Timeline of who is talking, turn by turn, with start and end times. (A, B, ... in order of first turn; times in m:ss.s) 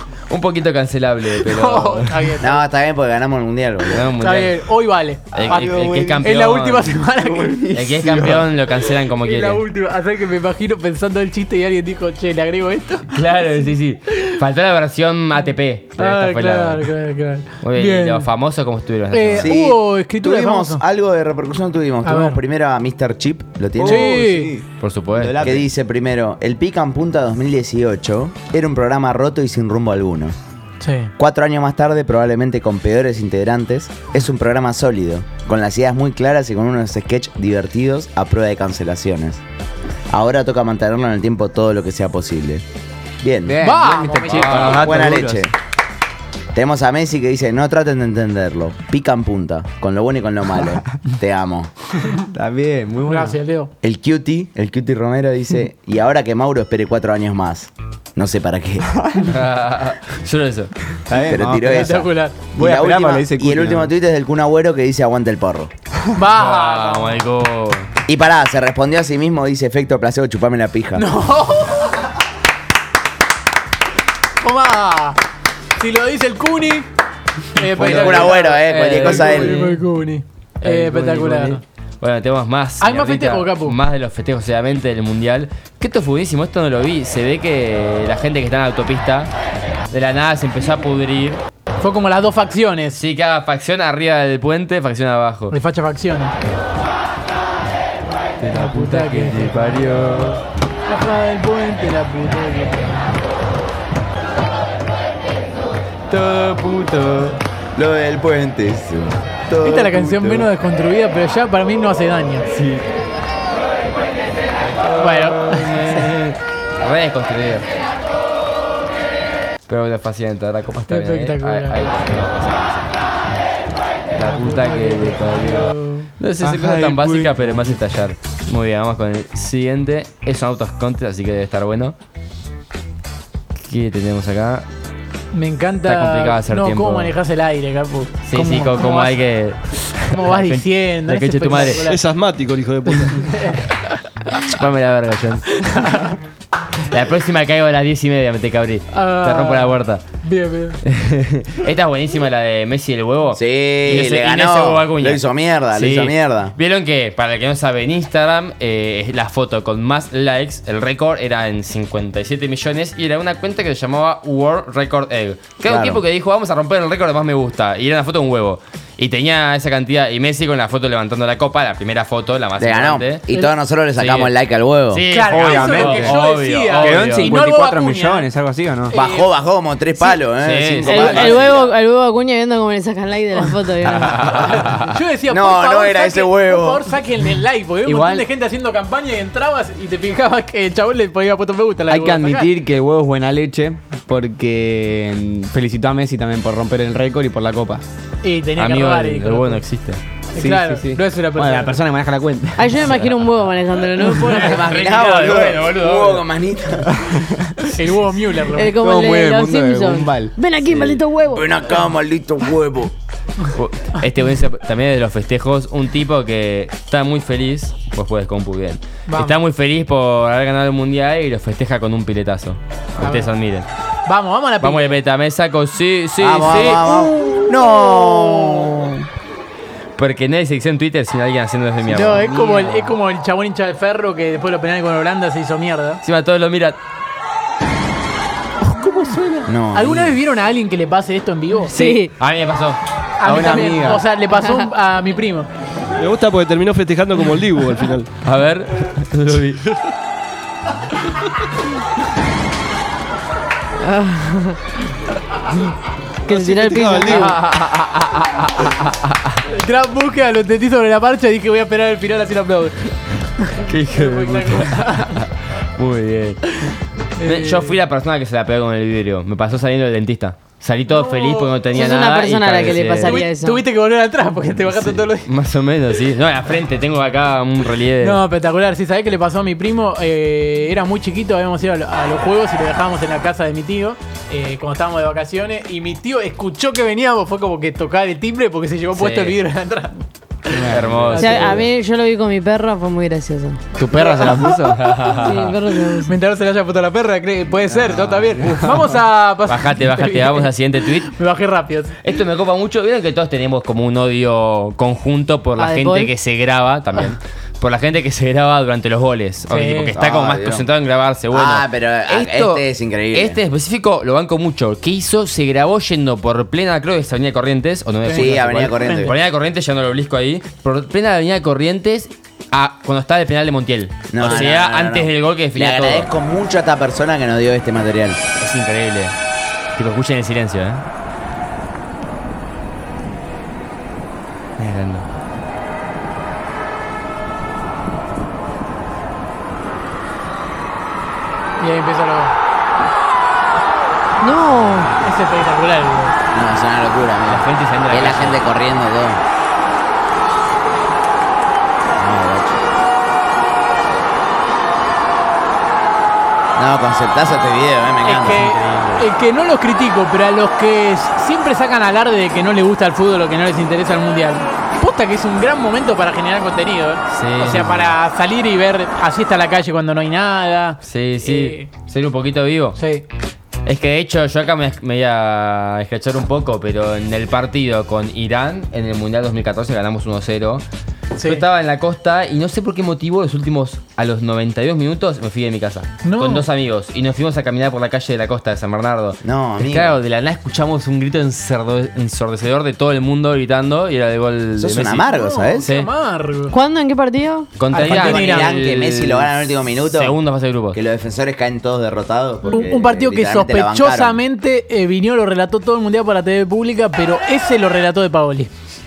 0:00.3-0:02.1 A
0:01.4-0:02.6 B
0:02.4-0:04.1 C
0:03.9-0:04.6 A
0:04.2-0:07.6 B
0:05.3-0:07.0 A
0:05.4-0:06.3 D
0:07.1-0:08.5 D
0:07.7-0:09.6 A
0:09.2-0:13.1 B
0:13.1-0:16.9 A
0:16.0-0:18.3 B
0:17.6-0:19.5 A
0:19.1-0:20.8 B
0:19.4-0:24.2 C
0:22.0-0:22.4 B
0:23.8-0:25.7 D
0:23.8-0:24.5 B
0:24.8-0:25.4 A
0:25.4-0:30.4 C
0:30.8-0:31.1 B
0:31.2-0:39.4 C
0:40.1-0:42.6 C
0:43.2-0:43.6 C
0:43.4-0:45.5 D
0:43.6-0:45.0 B
0:44.3-0:45.0 A
0:44.6-0:45.5 C
0:46.6-0:51.7 C
0:52.3-0:53.4 D
0:53.1-0:53.7 B
0:53.8-0:58.9 C
0:58.9-0:59.2 D
0:59.2-1:00.7 A
1:01.1-1:03.9 D
1:01.1-1:05.7 C
1:01.7-1:02.4 B
1:06.2-1:07.2 B
1:06.3-1:07.9 A
1:08.1-1:11.1 C
1:11.0-1:12.0 B
1:14.4-1:15.2 B
1:15.8-1:16.9 B
1:17.6-1:21.6 B
1:17.8-1:19.8 A
1:17.8-1:19.6 C
1:20.6-1:29.3 A
1:22.8-1:23.8 B
1:29.9-1:31.4 A
1:31.8-1:33.0 B
1:33.0-1:35.6 A
1:35.5-1:36.3 B
1:38.4-1:40.4 A
1:38.5-1:39.9 B
1:40.9-1:43.1 B
1:46.1-1:47.4 A
1:47.8-1:50.5 C
1:49.6-1:52.5 B
1:52.6-1:52.8 A
1:54.9-1:57.7 A
1:54.9-1:56.0 B
1:59.7-2:02.9 A
2:00.9-2:01.9 B
2:04.2-2:12.0 A
2:04.2-2:06.1 B
2:06.4-2:07.8 D
2:13.7-2:14.7 A
2:15.3-2:19.2 B
2:15.8-2:17.1 A
2:18.3-2:21.8 A
2:20.1-2:22.0 B
2:21.6-2:23.3 E
2:22.9-2:23.7 B
2:24.4-2:25.9 A
2:25.6-2:26.2 B
2:26.9-2:30.0 A
2:28.9-2:30.8 B
2:30.9-2:53.2 A
2:33.3-2:36.6 C
2:45.6-2:46.0 C
2:52.6-2:55.1 C
2:54.0-2:54.3 A
2:54.9-2:57.4 A
2:55.1-2:58.3 B
2:55.3-2:56.2 D
2:56.8-2:58.9 D
2:58.9-2:59.3 B
2:58.9-3:01.7 C
3:00.4-3:01.6 A
3:00.8-3:04.3 F
3:04.0-3:04.6 A
3:04.0-3:04.8 D
3:04.3-3:12.5 B
3:05.3-3:06.9 C
3:07.8-3:08.3 D
3:11.9-3:17.8 D
3:18.2-3:19.6 B
3:18.6-3:20.0 A
3:20.4-3:21.8 B
3:20.4-3:22.9 D
3:22.6-3:24.9 F
3:22.8-3:23.2 A
3:24.4-3:26.9 C
3:24.4-3:26.2 A
3:27.1-3:27.5 D
3:27.6-3:28.7 B
3:28.5-3:31.5 F
3:28.7-3:31.0 D
3:30.6-3:31.0 A
3:31.3-3:32.9 C
3:33.5-3:43.7 A
3:39.1-3:39.4 B
3:43.0-3:43.3 B
3:44.1-3:45.0 B
3:44.6-3:47.0 A
3:46.2-3:49.1 C
3:50.0-3:52.3 A
3:51.9-3:56.0 B
3:52.0-3:52.7 F
3:52.4-3:52.9 D
3:56.0-3:56.8 A
3:58.7-4:01.7 B
3:59.1-3:59.3 D
3:59.5-4:00.2 C
4:01.7-4:02.8 A
4:01.7-4:02.1 F
4:03.2-4:05.5 B
4:03.2-4:04.0 D
4:06.0-4:08.1 E
4:08.2-4:09.8 A
4:13.8-4:14.6 F
4:16.2-4:17.4 F
4:16.3-4:17.4 E
4:17.1-4:19.3 A
4:19.5-4:22.8 B
4:23.4-4:25.2 B
4:23.6-4:26.4 A
4:27.2-4:27.8 B
4:27.2-4:33.2 A
4:30.9-4:31.8 B
4:31.7-4:33.6 F
4:32.8-4:35.3 B
4:34.7-4:38.2 A
4:38.0-4:49.9 B
4:49.0-4:49.4 A
4:50.5-4:51.7 B
4:50.5-4:51.2 D
4:50.7-4:51.5 A
4:51.2-4:53.7 F
4:53.8-4:55.6 A
4:53.9-4:55.2 B
4:55.0-4:56.1 F
4:56.0-5:01.9 B
4:57.9-4:58.6 A
4:59.5-5:01.2 A
5:02.0-5:26.1 A
5:05.6-5:06.1 F
5:09.5-5:10.0 B
5:10.0-5:10.7 C
5:11.3-5:13.4 C
5:18.0-5:19.1 B
5:18.1-5:19.1 C
5:24.1-5:28.2 C
5:28.4-5:29.2 A
5:29.8-5:30.8 A
5:34.6-5:35.0 A
5:41.6-5:42.4 B
5:44.2-5:44.9 F
5:45.0-5:46.2 B
5:46.3-5:49.2 C
5:47.3-5:48.4 A
5:52.0-5:52.6 C
5:56.6-5:58.4 C
5:58.0-6:11.7 B
5:58.2-5:59.1 A
6:07.1-6:07.9 A
6:10.8-6:12.8 A
6:12.8-6:13.1 B
6:13.7-6:20.6 A
6:21.2-6:21.4 B
6:21.2-6:35.1 A
6:26.0-6:26.5 B
6:29.2-6:30.0 C
6:34.6-6:35.7 C
6:35.1-6:36.6 B
6:35.6-6:35.9 A
6:36.5-6:37.5 F
6:37.6-6:40.8 A
6:37.7-6:38.5 B
6:37.9-6:40.2 C
6:40.7-6:44.2 C
6:42.5-6:48.5 B